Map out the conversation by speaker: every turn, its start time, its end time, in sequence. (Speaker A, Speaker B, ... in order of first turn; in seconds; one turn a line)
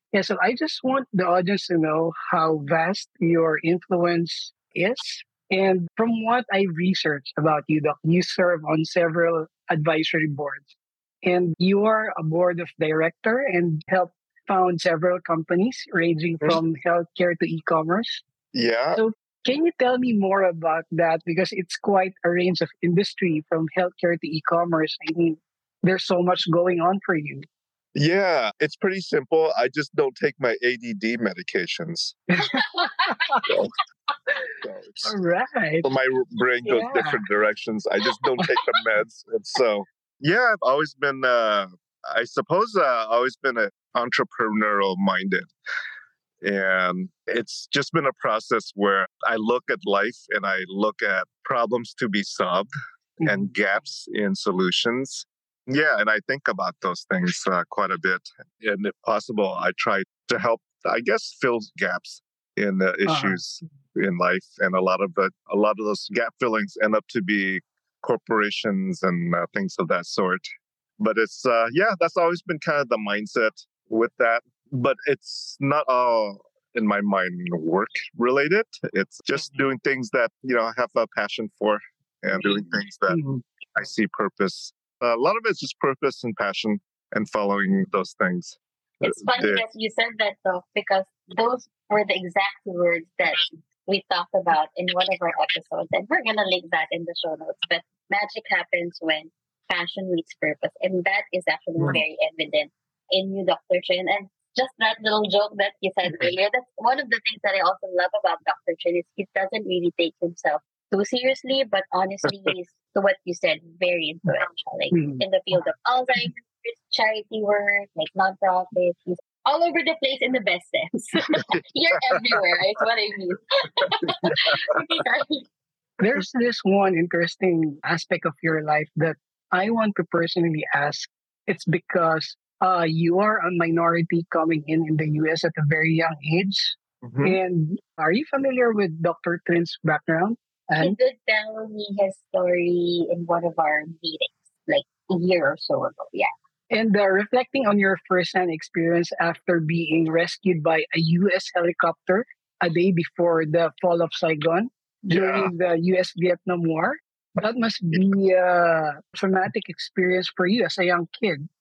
Speaker A: 0.1-18.2
Speaker B: 18.5-19.0
Speaker A: 18.9-27.4
Speaker B: 27.9-32.2
Speaker A: 32.3-33.4
Speaker C: 32.5-33.3
Speaker B: 34.6-35.2
Speaker A: 35.0-35.9
Speaker B: 35.8-45.5
Speaker A: 36.7-37.2
Speaker A: 38.4-38.8
Speaker B: 46.4-52.7
Speaker A: 53.2-53.5
Speaker B: 53.2-70.5
Speaker A: 63.1-63.4
Speaker B: 71.0-83.2
Speaker A: 83.1-83.4
Speaker B: 83.8-89.7
Speaker C: 89.0-125.5
Speaker A: 114.2-115.2
Speaker B: 121.5-122.5
Speaker A: 126.0-141.0
Speaker B: 137.0-137.4
Speaker C: 140.9-146.3
Speaker A: 146.7-161.5
Speaker B: 155.1-155.5